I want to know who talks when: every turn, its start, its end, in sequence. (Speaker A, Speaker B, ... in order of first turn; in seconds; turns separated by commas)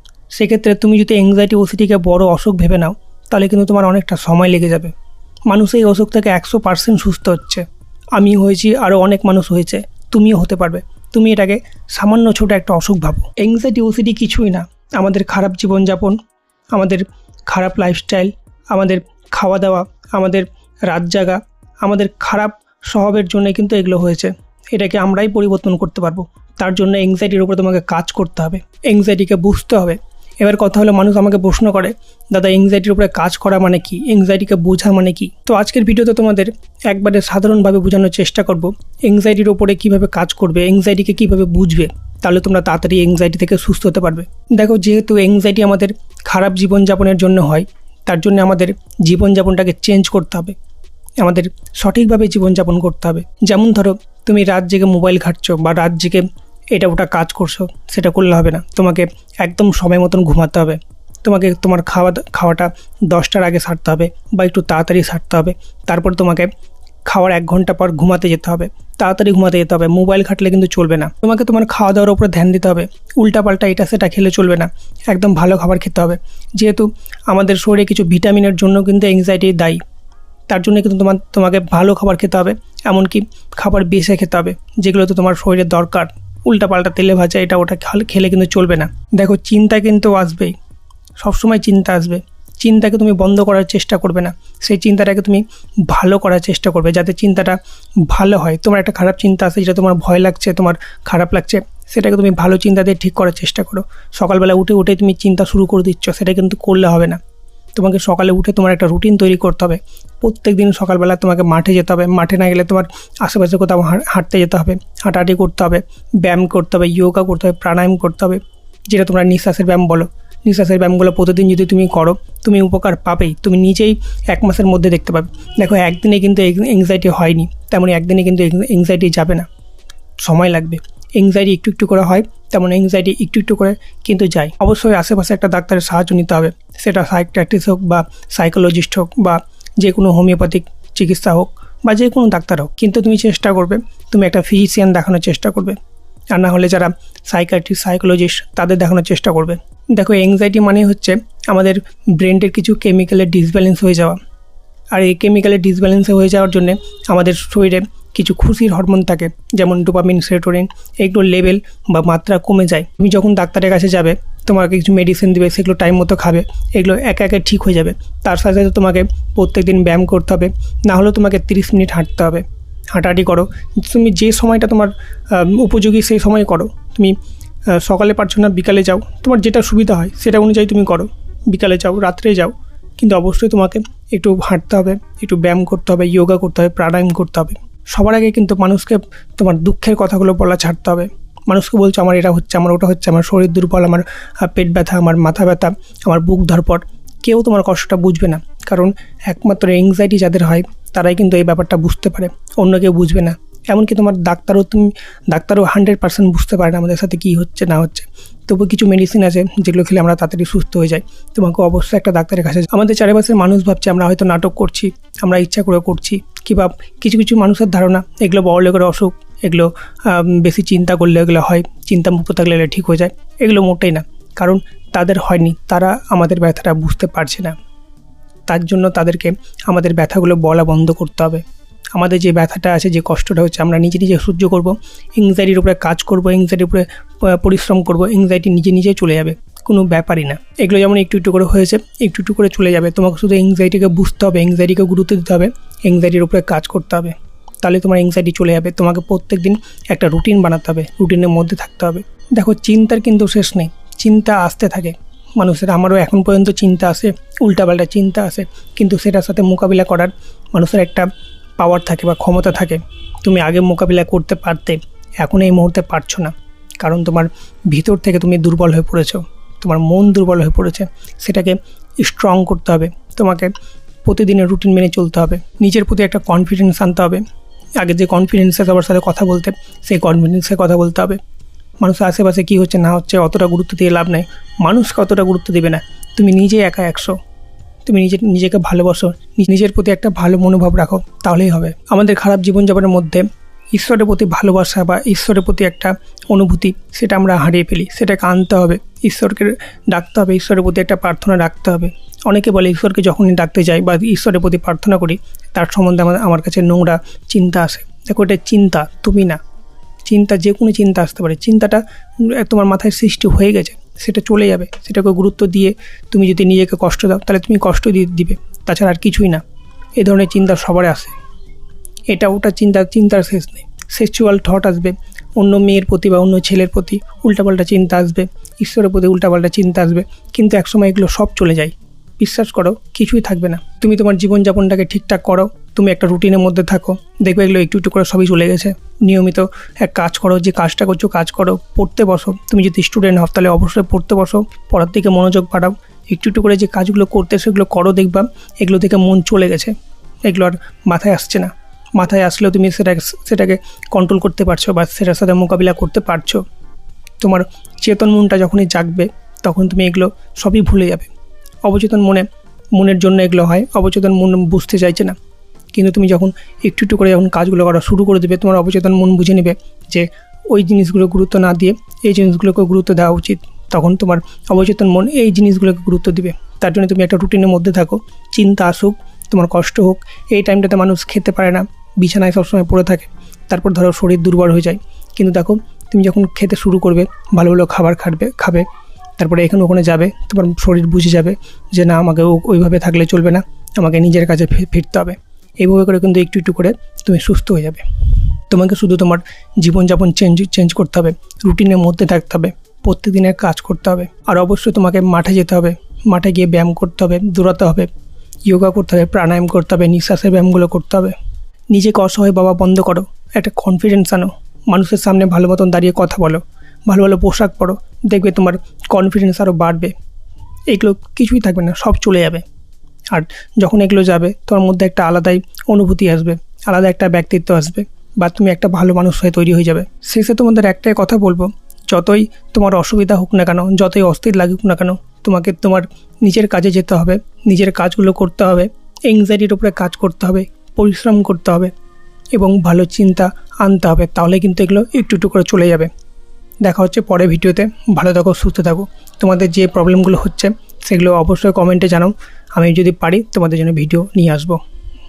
Speaker A: 0.3-4.9, Speaker A: 5.5-16.2, Speaker A: 16.7-50.5, Speaker A: 51.2-66.5, Speaker A: 67.0-79.8, Speaker A: 80.5-90.5, Speaker A: 91.2-107.2, Speaker A: 107.7-129.5, Speaker A: 130.2-145.8, Speaker A: 146.3-154.2, Speaker A: 154.9-177.2, Speaker A: 177.7-227.6, Speaker A: 228.4-273.5, Speaker A: 274.0-277.2, Speaker A: 277.8-281.2, Speaker A: 281.8-287.1, Speaker A: 287.8-309.4, Speaker A: 310.0-319.4, Speaker A: 320.0-321.1, Speaker A: 322.1-356.4, Speaker A: 357.2-361.1, Speaker A: 361.6-365.1, Speaker A: 365.7-388.7, Speaker A: 389.2-407.9, Speaker A: 408.4-411.1, Speaker A: 411.7-419.9, Speaker A: 420.7-422.4, Speaker A: 423.1-441.7, Speaker A: 442.3-445.9, Speaker A: 446.6-454.6